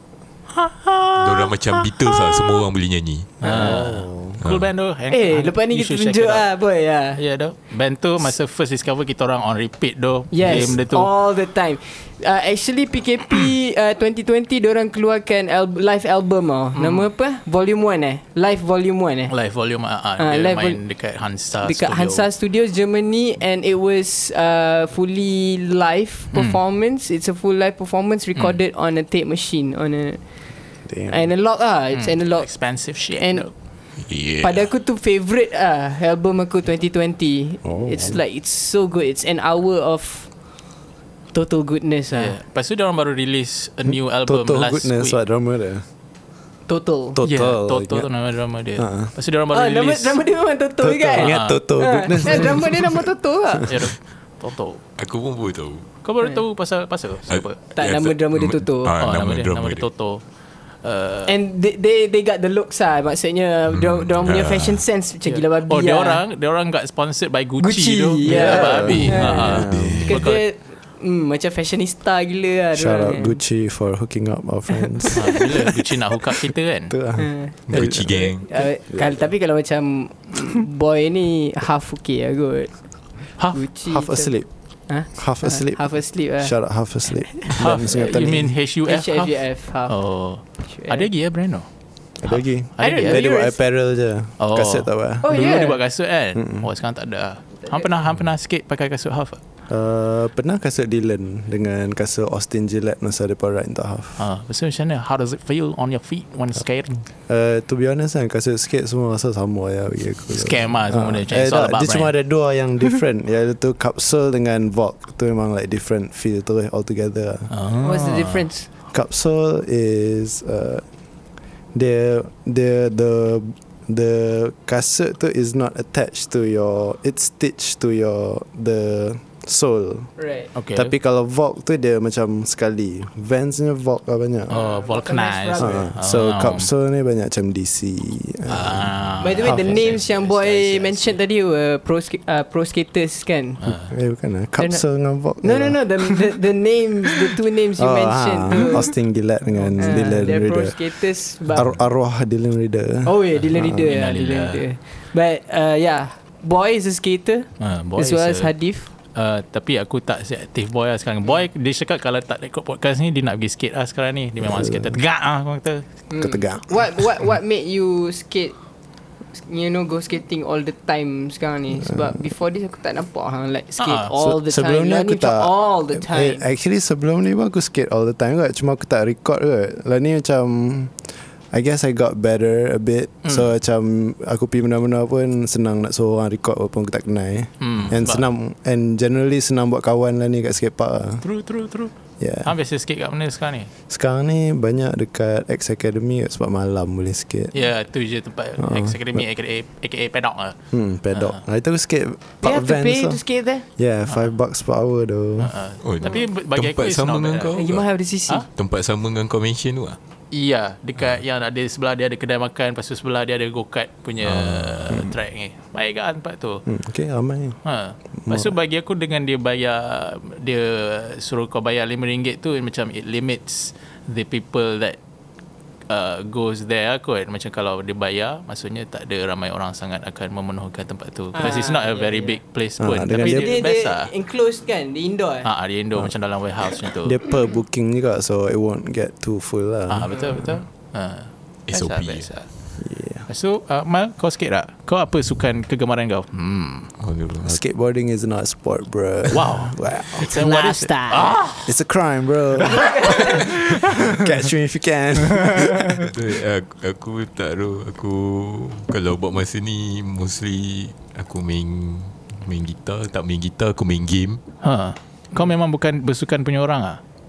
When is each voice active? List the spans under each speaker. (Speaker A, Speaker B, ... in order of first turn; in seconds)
Speaker A: 0.5-1.9, 3.4-6.5, 7.2-11.1, 16.7-17.1, 19.3-22.2, 26.3-26.6, 31.9-33.5, 42.1-45.2, 47.2-50.2, 51.2-51.6, 53.6-54.8, 56.0-57.6, 59.0-60.2, 60.8-61.3, 65.2-70.4, 75.1-76.9, 87.5-91.7, 92.2-93.2, 94.4-99.4, 104.2-107.0, 110.3-112.1, 117.5-118.5, 130.5-130.9, 134.5-136.7, 138.5-141.2, 143.6-143.9, 148.5-148.8, 149.5-150.1, 153.6-154.6, 157.6-158.5, 159.1-165.8, 173.8-174.1, 187.6-188.2, 191.2-193.7, 197.5-200.6, 201.1-201.4, 205.4-207.6, 210.3-216.6, 217.6-225.0, 225.9-234.1, 235.4-237.2, 239.9-242.5, 243.3-246.9, 249.3-251.7, 264.6-267.0
Speaker B: 1.2-3.4, 4.4-4.7, 34.0-34.7, 55.0-55.9, 57.3-59.9, 63.7-64.8, 68.9-70.2, 77.7-78.6, 205.8-207.9, 208.5-210.0, 214.2-215.1, 241.7-242.3, 247.0-247.6, 256.0-264.4
Speaker C: 3.4-4.4, 30.9-31.2, 37.6-38.2, 43.9-45.8, 47.1-48.1, 48.8-49.1, 50.8-53.1, 68.2-70.1, 72.7-75.8, 76.9-78.3, 78.9-79.2, 83.9-84.5, 85.0-88.6, 92.2-95.3, 96.3-96.7, 99.7-104.2, 107.3-117.5, 118.9-120.8, 121.7-130.2, 130.7-134.6, 135.6-139.8, 143.9-145.8, 147.8-151.0, 151.5-153.9, 164.4-164.9, 166.2-167.0, 171.8-172.2, 174.2-191.2, 192.2-192.5, 193.9-197.5, 198.6-199.2, 200.7-203.2, 203.8-205.5, 216.7-217.6, 218.2-218.5, 232.8-233.6, 237.0-240.4, 242.8-243.2, 247.4-250.3, 251.6-256.1
Speaker D: 5.1-7.2, 10.3-19.3, 20.2-20.8, 21.6-30.2, 31.1-33.5, 34.4-40.7, 41.3-42.4, 46.7-47.2, 49.5-53.8, 57.8-58.9, 61.3-66.2, 67.6-73.4, 77.2-84.3, 84.9-86.5, 87.5-88.2, 88.8-89.9, 90.6-91.1, 92.8-93.5, 95.2-95.8, 117.8-118.7, 130.2-130.5, 134.5-135.9, 139.2-143.6, 144.6-144.8, 145.4-148.9, 149.8-151.7, 153.0-158.9, 166.1-168.6, 169.3-176.4, 202.4-203.7, 207.5-208.5, 231.3-232.4, 233.2-235.5, 250.2-251.4